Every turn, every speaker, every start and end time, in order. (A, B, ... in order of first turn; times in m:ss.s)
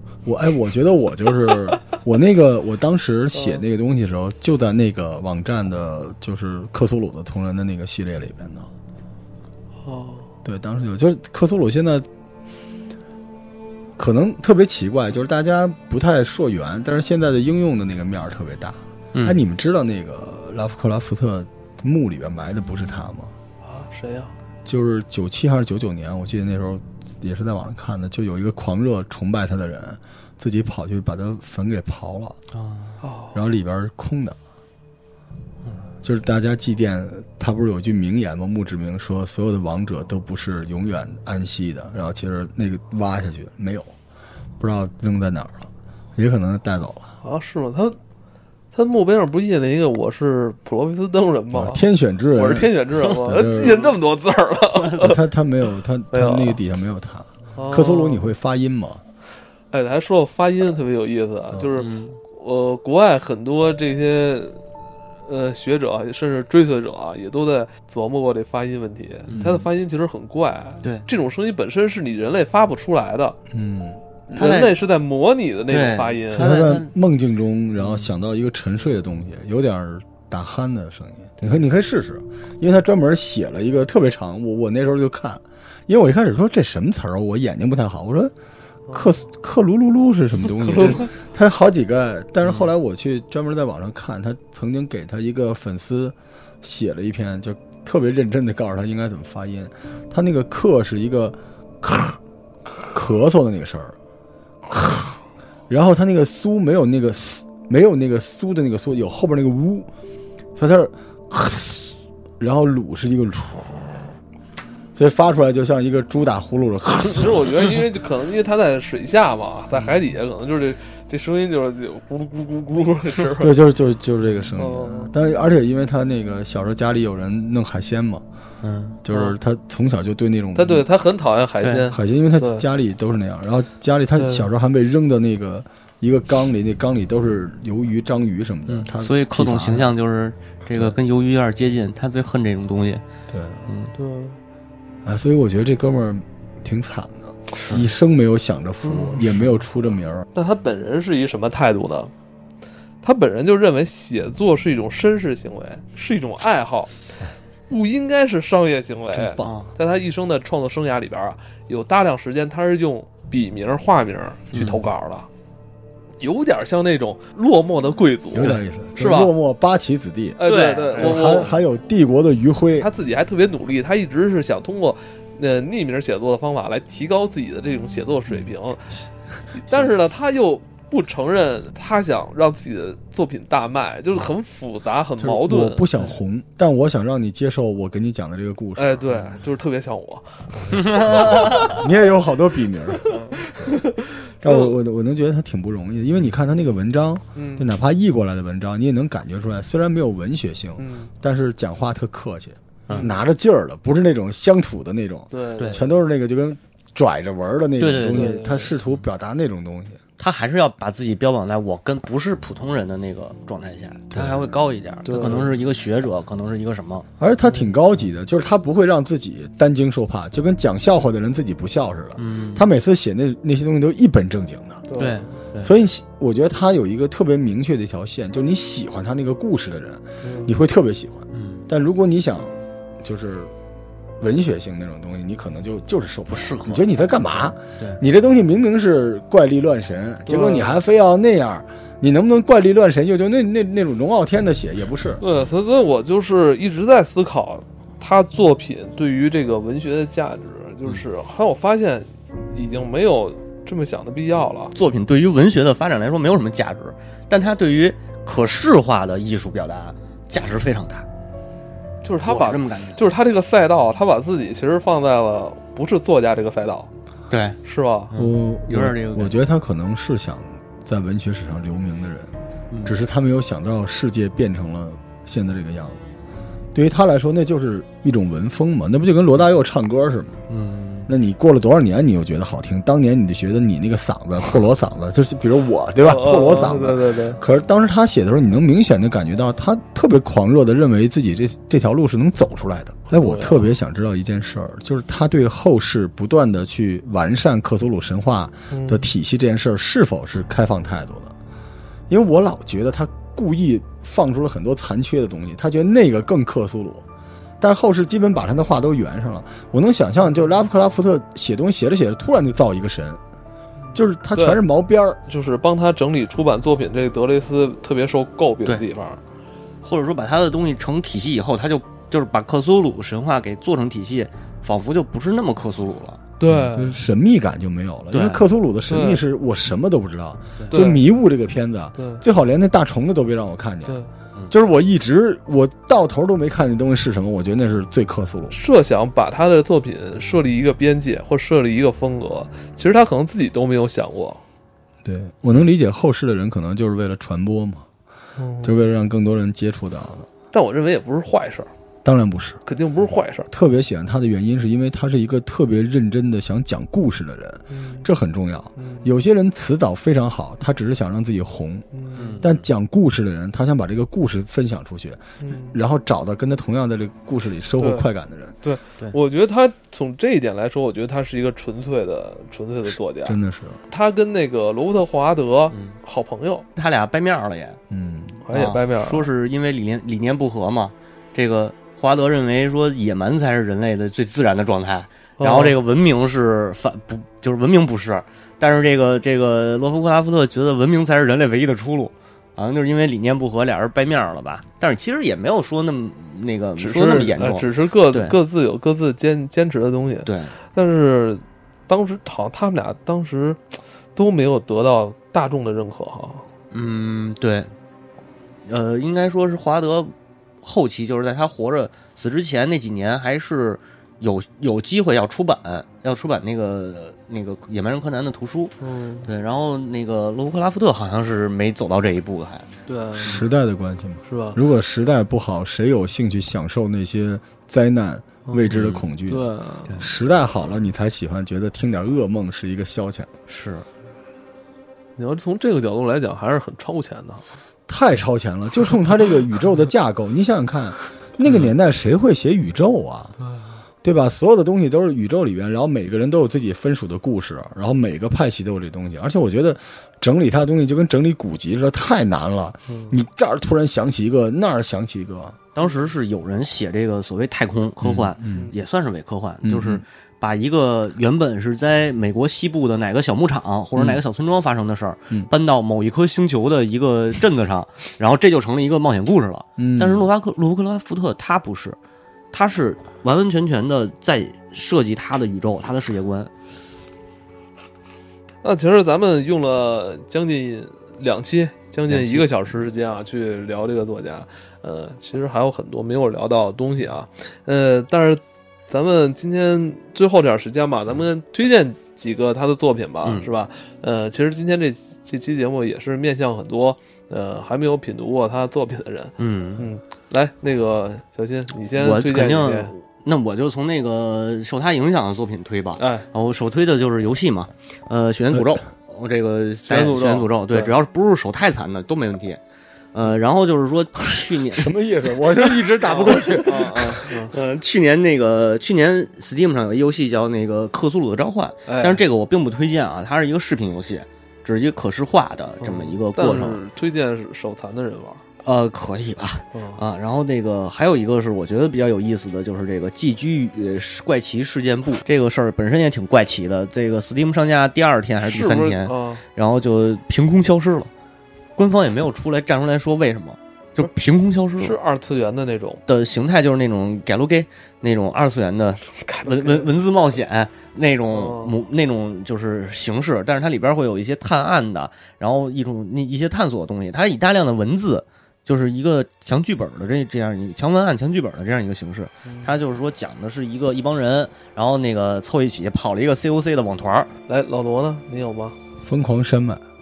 0:00.2-0:08.7 A
0:03.3-0:03.6 B
0:09.8-0:10.3 B
0:10.4-0:12.1 A
0:14.0-0:23.3 A
0:19.1-0:19.4 C
0:23.6-0:24.3 B
0:24.6-0:32.4 A
0:32.5-0:33.0 C
0:33.0-0:33.4 B
0:33.3-0:34.4 A
0:36.0-0:43.9 A
0:44.6-0:47.1 A
0:47.2-0:48.0 B
0:48.7-0:55.2 B
0:51.5-0:53.9 A
0:55.0-0:59.0 A
0:56.1-0:56.6 B
0:57.6-0:58.3 B
0:59.7-1:04.6 B
1:01.8-1:02.2 C
1:05.3-1:13.4 B
1:09.3-1:09.6 C
1:09.3-1:09.6 A
1:13.5-1:14.0 A
1:14.3-1:16.6 B
1:14.4-1:14.8 C
1:15.7-1:16.9 C
1:16.4-1:28.3 A
1:17.8-1:18.1 C
1:28.9-1:29.2 B
1:28.9-1:42.2 A
1:30.7-1:31.0 C
1:32.4-1:32.7 C
1:42.9-1:44.0 A
1:44.7-1:45.2 A
1:45.7-1:49.9 A
1:50.6-1:53.9 A
1:55.0-1:57.5 A
1:57.1-2:03.6 B
2:03.4-2:08.2 A
2:04.6-2:05.1 B
2:08.6-2:09.0 C
2:09.0-2:10.9 A
2:10.6-2:12.6 B
2:11.6-2:11.9 C
2:11.9-2:20.0 A
2:14.2-2:14.5 B
2:18.7-2:23.0 C
2:23.3-2:23.7 A
2:23.7-2:23.9 C
2:24.0-2:24.4 B
2:25.0-2:30.3 A
2:28.9-2:29.2 B
2:30.4-2:32.1 B
2:33.0-2:36.9 B
2:37.7-2:45.3 B
2:39.2-2:39.6 A
2:39.4-2:39.7 C
2:44.5-2:44.8 C
2:46.2-2:49.3 B
2:48.3-2:50.4 A
2:50.4-2:51.5 B
2:50.4-2:51.6 C
2:51.0-2:52.9 A
2:52.8-2:59.0 B
2:59.5-3:05.9 B
3:05.2-3:09.1 A
3:08.8-3:11.8 B
3:10.7-3:13.2 A
3:10.8-3:11.8 C
3:13.0-3:14.8 B
3:14.4-3:30.0 A
3:17.4-3:17.7 B
3:20.8-3:21.1 B
3:25.3-3:25.9 B
3:27.8-3:29.0 C
3:28.1-3:28.7 B
3:30.2-3:37.1 C
3:34.1-3:34.6 A
3:35.0-3:35.5 B
3:37.2-3:44.9 A
3:37.4-3:37.7 B
3:42.2-3:42.7 C
3:44.9-3:45.2 B
3:45.0-3:45.7 C
3:45.6-3:53.5 A
3:50.2-3:50.5 B
3:51.3-3:51.6 C
3:54.2-4:05.2 A
3:56.3-3:56.8 C
4:00.3-4:00.8 B
4:05.2-4:14.7 B
4:14.7-4:21.1 C
4:22.0-4:26.9 B
4:22.3-4:23.0 C
4:27.3-4:27.6 C
4:27.6-4:28.1 B
4:28.1-4:29.4 C
4:28.2-4:36.0 A
4:32.7-4:33.0 C
4:36.7-4:40.4 A
4:40.5-4:41.1 C
4:41.1-5:01.3 A
4:46.0-4:47.4 B
4:53.1-4:53.7 B
4:58.7-4:59.1 B
5:02.1-5:07.0 A
5:07.6-5:13.2 A
5:10.2-5:10.5 B
5:13.8-5:14.6 B
5:13.9-5:15.2 A
5:15.3-5:19.2 B
5:19.8-5:26.2 C
5:26.4-5:27.0 B
5:26.5-5:34.0 A
5:28.1-5:28.4 C
5:28.9-5:29.2 B
5:30.7-5:31.0 B
5:32.0-5:32.2 B
5:34.5-5:38.5 A
5:38.5-5:44.4 B
5:45.0-5:47.9 A
5:48.4-5:48.8 B
5:48.6-5:50.3 A
5:50.5-5:51.7 B
5:52.0-5:52.6 A
5:52.7-5:53.5 B
5:53.5-6:01.9 A
5:57.7-5:58.1 B
5:58.8-5:59.1 B
6:01.9-6:02.4 B
6:02.2-6:02.6 C
6:02.4-6:08.6 A
6:05.4-6:05.8 B
6:07.8-6:08.1 B
6:08.6-6:13.4 B
6:13.2-6:13.8 A
6:13.9-6:16.7 B
6:15.7-6:16.0 C
6:16.8-6:17.8 C
6:17.9-6:18.4 A
6:18.4-6:19.3 B
6:18.5-6:38.4 C
6:25.4-6:25.8 B
6:36.8-6:46.5 B
6:40.2-6:40.6 C
6:46.7-6:47.7 C
6:48.7-7:02.7 C
6:58.8-6:59.3 B
7:02.9-7:03.4 B
7:03.2-7:09.5 A
7:04.3-7:04.6 B
7:08.5-7:08.7 B
7:08.7-7:09.0 C
7:09.3-7:10.0 B
7:10.0-7:13.3 A
7:13.5-7:13.9 C
7:15.2-7:17.4 B
7:17.9-7:23.4 A
7:21.4-7:21.7 C
7:24.0-7:35.6 A
7:32.9-7:33.2 B
7:35.8-7:52.0 C
7:35.8-7:36.1 B
7:38.0-7:38.7 A
7:38.5-7:38.8 B
7:39.6-7:40.0 A
7:44.0-7:44.2 A
7:49.8-7:50.3 A
7:52.5-7:56.5 C
7:58.6-8:22.9 B
8:02.1-8:02.5 C
8:19.4-8:19.9 C
8:22.0-8:32.6 C
8:26.0-8:26.3 B
8:29.9-8:31.0 B
8:33.1-8:34.9 C
8:34.7-8:37.2 A
8:35.6-8:36.6 C
8:36.0-8:37.5 B
8:37.3-8:46.8 C
8:41.9-8:42.2 B
8:45.8-8:48.4 B
8:48.6-9:01.1 C
8:49.7-8:50.0 B
8:58.4-8:59.4 B
9:01.8-9:05.0 C
9:04.8-9:06.0 B
9:06.1-9:27.3 C
9:09.2-9:09.9 B
9:11.3-9:11.8 B
9:22.5-9:22.7 B
9:27.5-9:28.8 B
9:29.0-9:29.8 A